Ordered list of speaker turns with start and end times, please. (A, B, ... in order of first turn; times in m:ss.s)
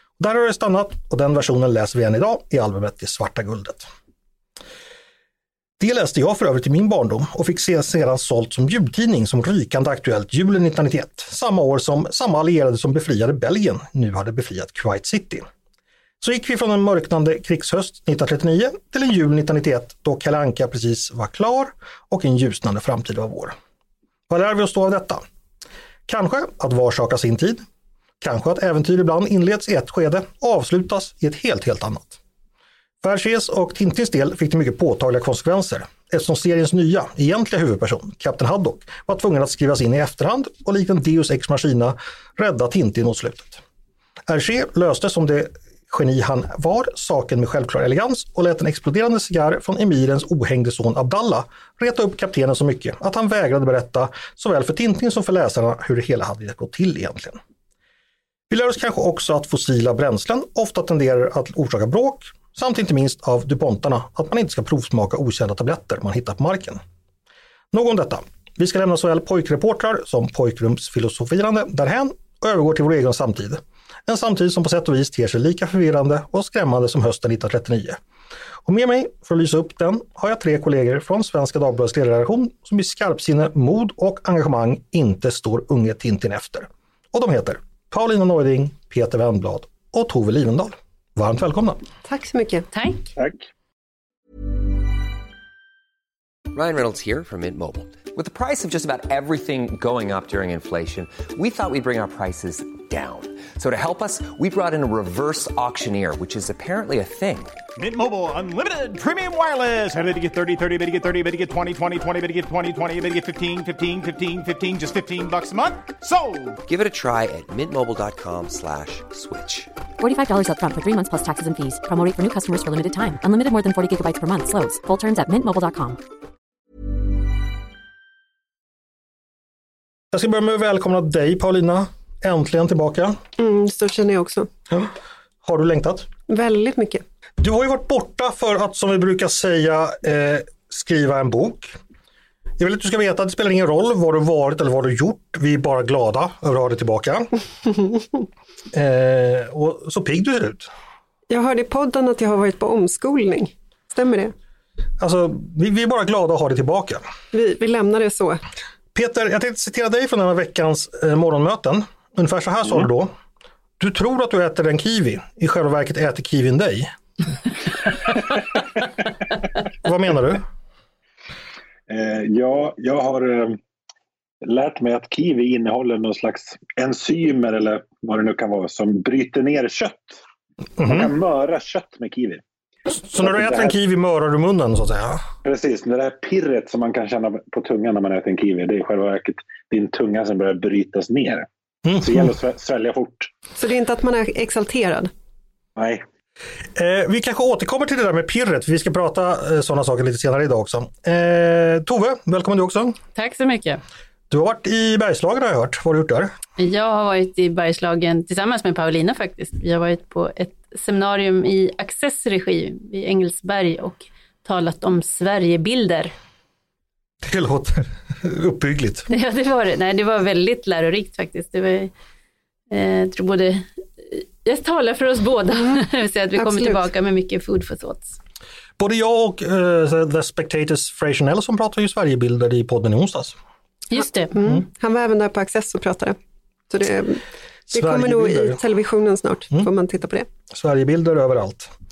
0:00.2-0:03.9 A
0:05.8-0:15.4 A
0:16.2-0:23.6 A
0:24.3-0:25.2 A
0:26.1-0:27.6 A
0:28.2-0:32.2 A
0:33.0-0:43.6 A
0:44.3-0:57.4 A
0:58.5-1:06.8 A
1:07.7-1:18.0 A
1:18.7-1:31.8 A
1:32.0-1:32.7 B
1:32.7-1:33.1 C
1:33.2-1:33.4 D
1:36.5-1:47.6 E
1:47.8-1:56.6 F
1:56.7-1:59.7 E
2:00.0-2:06.0 G
2:10.1-2:13.2 A
2:13.4-2:14.5 B
2:15.4-2:16.1 A
2:16.3-2:17.0 B
2:17.4-2:21.8 A
2:22.6-2:27.3 A
2:28.7-2:30.7 A
2:31.3-2:34.3 B
2:35.0-2:37.0 A
2:37.3-2:38.4 B
2:39.0-2:43.1 A
2:43.8-2:46.9 A
2:49.8-2:50.5 A
2:51.9-2:53.6 D
2:54.4-3:00.2 D
3:00.8-3:01.1 A
3:00.8-3:02.4 D
3:02.9-3:05.2 A
3:03.2-3:03.8 D
3:05.4-3:11.5 D
3:11.9-3:12.3 A
3:12.0-3:13.3 D
3:13.6-3:15.1 B
3:15.8-3:16.0 D
3:16.8-3:23.0 A
3:23.2-3:23.8 C
3:24.3-3:26.3 A
3:26.6-3:36.1 C
3:37.2-3:39.1 A
3:39.1-3:41.9 C
3:42.7-3:48.2 C
3:46.4-3:46.9 B
3:48.8-3:53.4 A
3:53.9-3:54.3 C
3:54.3-3:56.2 B
3:56.7-4:00.3 B
3:57.7-3:58.6 A
4:00.5-4:01.7 A